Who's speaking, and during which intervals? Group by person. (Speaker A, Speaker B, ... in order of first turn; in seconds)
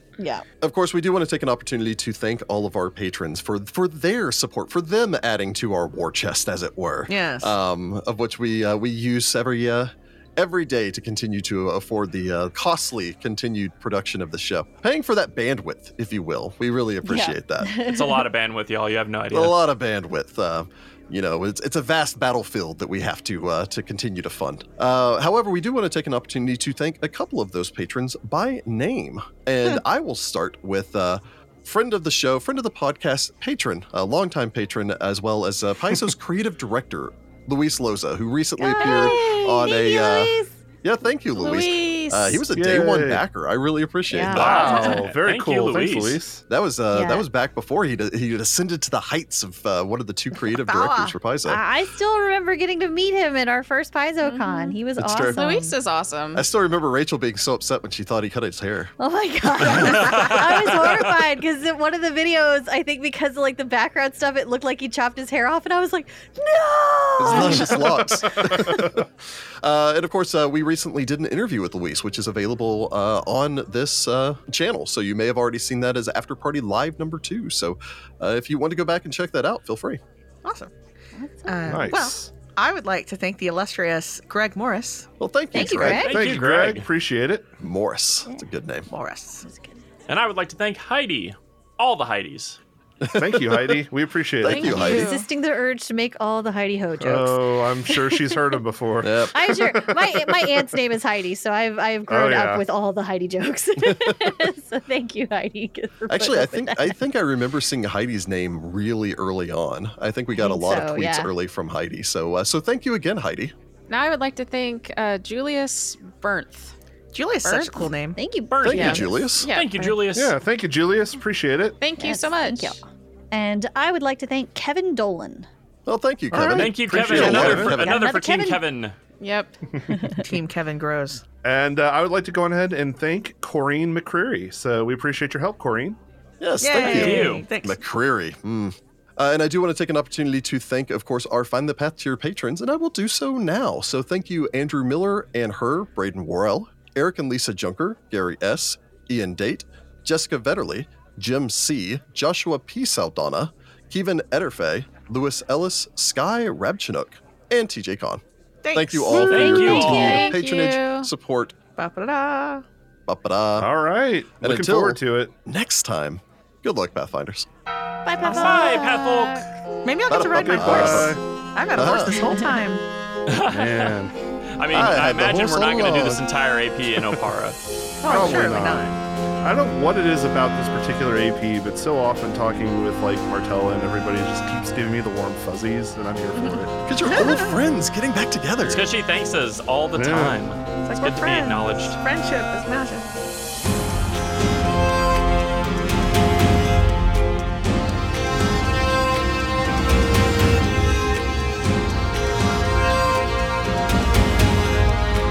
Speaker A: 0.2-0.4, 17.0-18.2, 38.6-40.5, 44.1-45.1, 46.9-47.2, 51.5-55.8, 59.0-68.8, 81.2-81.9, 85.5-86.3, 89.5-89.8, 94.4-98.6, 99.3-107.0, 110.3-111.3, 118.2-119.3, 122.0-125.5, 127.2-128.6, 129.8-130.2, 159.4-160.0, 168.0-169.3
Speaker B: 0.6-17.8, 19.3-44.7, 46.5-51.6, 55.0-55.4, 56.3-58.9, 59.6-60.2, 67.2-69.0, 69.6-80.0, 85.2-86.1, 87.6-88.9, 93.0-93.8, 94.4-95.2, 99.0-99.6, 103.8-104.3, 106.1-113.5, 118.6-119.5, 125.8-128.1, 136.4-158.2, 158.7-161.6, 163.1-163.7, 164.4-167.5, 170.1-171.2, 171.8-172.3, 174.7-176.2, 186.9-188.8
Speaker C: 7.1-7.5, 50.5-51.2, 80.4-80.7, 81.5-85.1, 88.9-89.5, 117.1-118.2, 130.1-131.2, 136.6-137.8, 158.6-159.4, 161.8-162.6, 168.2-168.7, 169.8-172.8, 178.0-178.9, 187.0-187.6, 190.8-193.1
Speaker D: 17.8-19.6, 44.3-46.2, 85.8-86.9, 90.1-92.6, 118.5-120.3, 126.5-128.9, 136.7-137.5, 159.3-160.3, 168.2-169.5, 173.3-174.0, 174.5-177.6, 188.6-192.0
Speaker E: 38.8-39.4, 41.4-42.4, 54.2-56.4, 94.5-95.3, 113.9-116.7, 117.4-117.9, 118.6-120.0, 121.8-122.8, 129.2-129.6, 159.1-161.1
Speaker F: 42.5-43.2, 44.4-46.4, 67.4-67.8, 68.6-69.0, 81.7-82.3, 85.8-87.5, 93.1-94.7, 97.0-100.7, 102.1-102.7, 120.1-121.8, 126.3-127.8, 131.4-136.0, 163.6-165.3, 170.3-171.2, 173.5-174.1, 178.1-186.8, 189.9-190.4